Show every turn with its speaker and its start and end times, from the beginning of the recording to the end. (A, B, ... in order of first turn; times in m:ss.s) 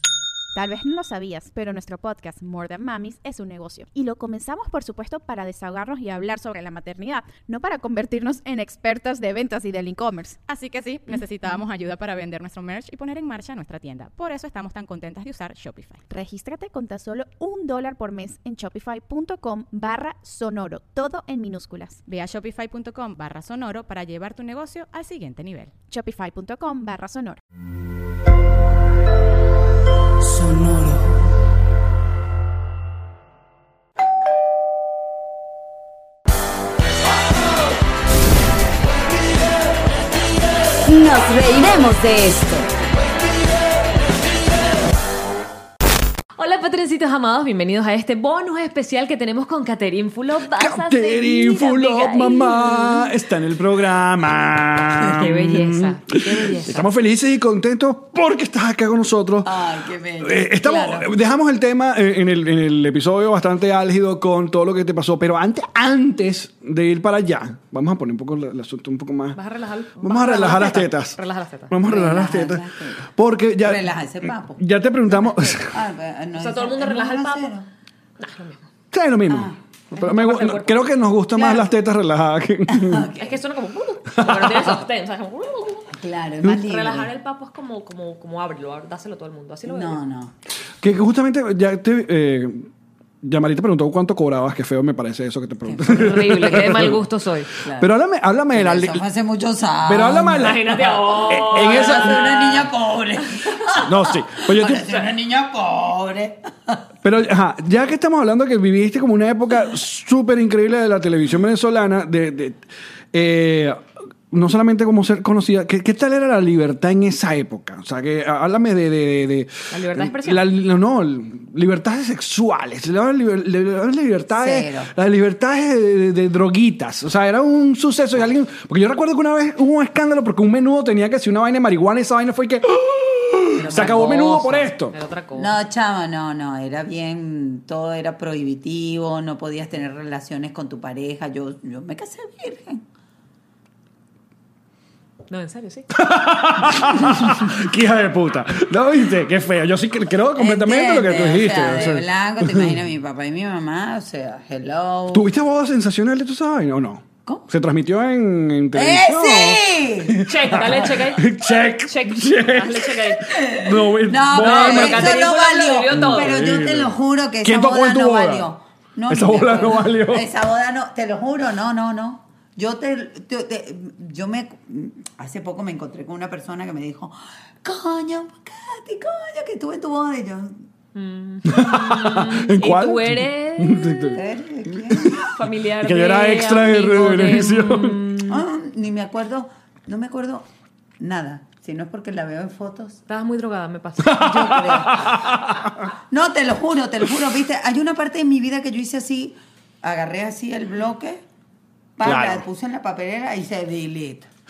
0:00.5-0:10.4 A
0:10.5-0:16.0 B
0:16.1-0:22.0 A
0:22.1-0:25.7 B
0:25.9-0:27.4 A
0:30.6-0:30.9 C
0:40.8-0:42.7 C
0:46.4-0:53.1 D
0:50.5-1:09.4 E
0:55.1-0:56.9 D
0:59.4-1:01.1 C
1:09.4-1:11.7 D
1:10.0-1:11.2 E
1:11.7-1:15.7 E
1:11.8-1:13.0 C
1:13.6-1:14.6 C
1:15.2-1:17.7 C
1:16.4-1:17.5 D
1:18.2-1:18.7 D
1:18.9-1:23.1 E
1:19.3-1:20.2 C
1:20.0-1:20.8 D
1:21.3-1:21.7 C
1:22.7-1:23.4 C
1:23.2-1:30.0 D
1:24.1-1:24.7 E
1:25.9-1:27.1 C
1:29.6-1:30.3 C
1:30.8-1:32.7 E
1:33.2-1:37.0 E
1:35.6-1:36.9 C
1:35.9-1:37.5 D
1:37.6-1:37.9 C
1:37.7-1:39.0 E
1:38.5-1:46.8 C
1:39.8-1:42.3 E
1:40.3-1:42.7 D
1:43.7-1:45.0 E
1:47.0-1:52.6 E
1:53.1-2:14.9 E
1:59.7-2:00.4 D
2:04.3-2:04.9 C
2:13.5-2:14.7 C
2:13.7-2:15.5 D
2:15.4-2:22.8 C
2:25.3-2:25.9 D
2:25.9-2:32.8 E
2:30.4-2:35.2 C
2:35.1-2:45.2 E
2:38.7-2:40.1 C
2:40.3-2:43.3 D
2:43.3-3:00.6 C
2:44.3-2:46.4 D
2:45.9-2:48.5 E
2:49.1-2:50.3 E
3:00.9-3:04.2 D
3:01.4-3:04.2 E
3:04.1-3:05.3 C
3:04.9-3:05.2 E
3:05.2-3:08.4 D
3:05.8-3:08.0 E
3:08.3-3:10.5 C
3:11.0-3:13.0 C
3:13.1-3:14.7 D
3:14.0-3:15.9 E
3:14.1-3:15.2 C
3:16.1-3:21.2 C
3:22.0-3:24.3 C
3:22.0-3:22.4 E